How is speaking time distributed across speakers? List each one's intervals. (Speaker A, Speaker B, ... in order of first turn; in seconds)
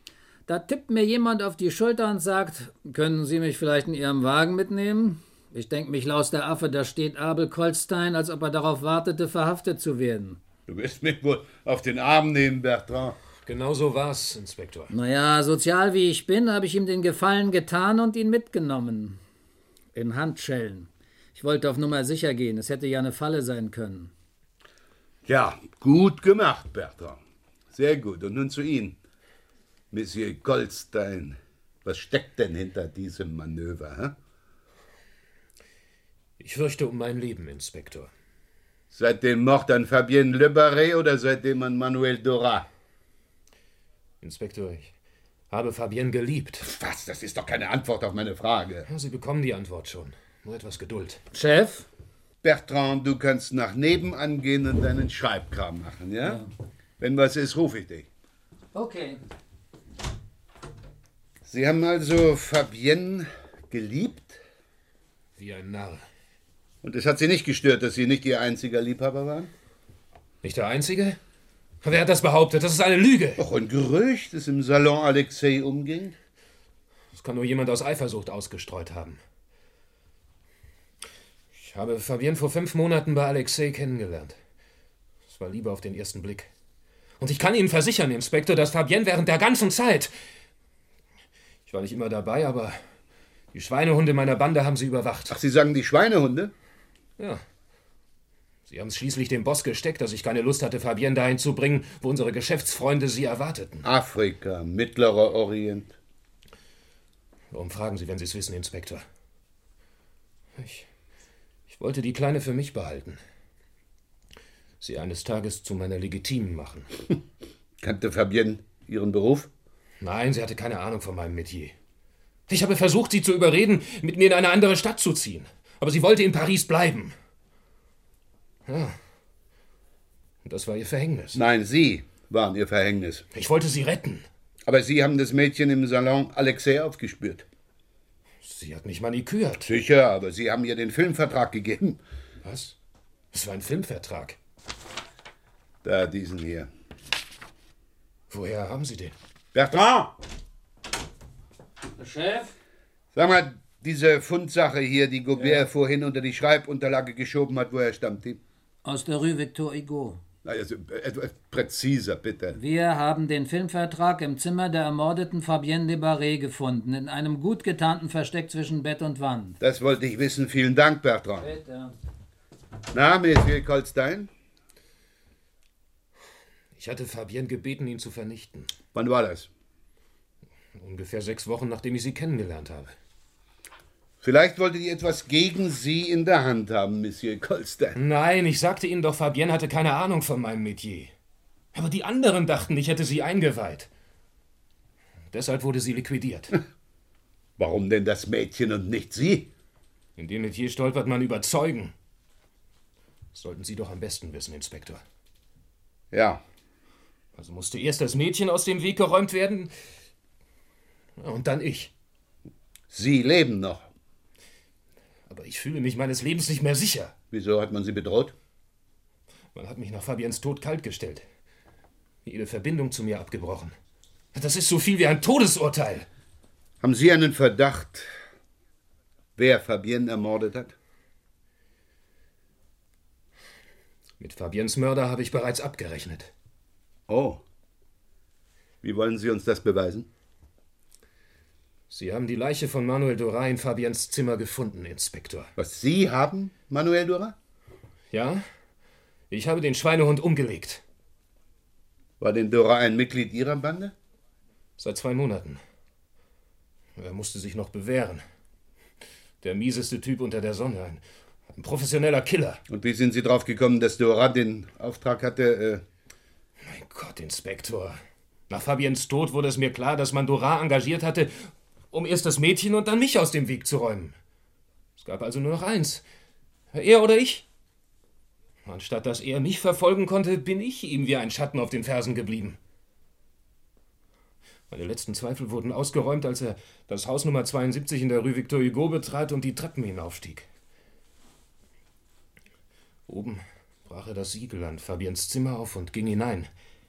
Speaker A: 0.5-10.4, 14.9-19.2, 19.9-24.1, 51.3-51.9, 58.7-59.2, 152.0-152.5, 155.3-155.7, 158.8-160.2, 162.5-169.6, 171.4-171.9
Speaker B: 10.7-13.2, 25.2-27.2, 27.7-29.0, 29.9-34.1, 38.9-42.7, 46.6-48.9, 52.4-56.4, 57.0-58.1, 61.5-64.4, 66.8-69.5, 73.4-76.1, 95.3-96.5, 103.8-105.9, 117.8-119.5, 131.3-133.2, 134.7-137.4, 139.7-142.0, 145.8-146.7, 149.5-150.1, 153.1-158.4, 160.4-162.6, 169.6-171.5, 172.9-174.3, 178.9-179.5, 184.2-188.0, 197.6-199.5, 206.1-206.4, 212.9-213.8, 217.3-218.3, 226.8-228.1, 229.4-230.7, 237.1-237.4, 238.8-240.1, 245.6-247.3, 252.2-253.9, 262.7-265.8
Speaker C: 13.4-14.9, 36.4-38.1, 44.2-44.9, 45.5-46.6, 48.9-51.2, 65.4-66.0, 70.4-71.2, 71.8-73.4, 77.1-79.2, 81.5-84.4, 85.3-86.5, 87.2-90.1, 91.7-92.8, 93.5-95.4, 98.7-103.8, 107.5-109.0, 110.6-110.9, 111.7-113.2, 114.8-116.9, 120.0-121.7, 122.5-127.1, 128.7-129.0, 130.4-131.4, 133.3-134.3, 138.4-139.7, 142.4-142.7, 143.3-144.4, 148.3-149.1, 176.8-178.7, 180.7-182.9, 187.9-191.1, 191.7-193.9, 195.3-196.5, 200.2-201.9, 203.3-205.0, 207.3-209.7, 211.2-211.9, 215.3-217.1, 219.5-221.2, 222.2-223.7, 224.3-226.1, 234.2-236.3, 241.9-245.5, 248.1-248.4, 249.3-250.8, 254.8-255.6, 257.0-258.2, 259.4-261.0, 261.5-262.6, 266.6-274.1, 275.0-276.0, 276.7-277.4, 278.6-282.6, 284.7-290.5, 293.1-296.5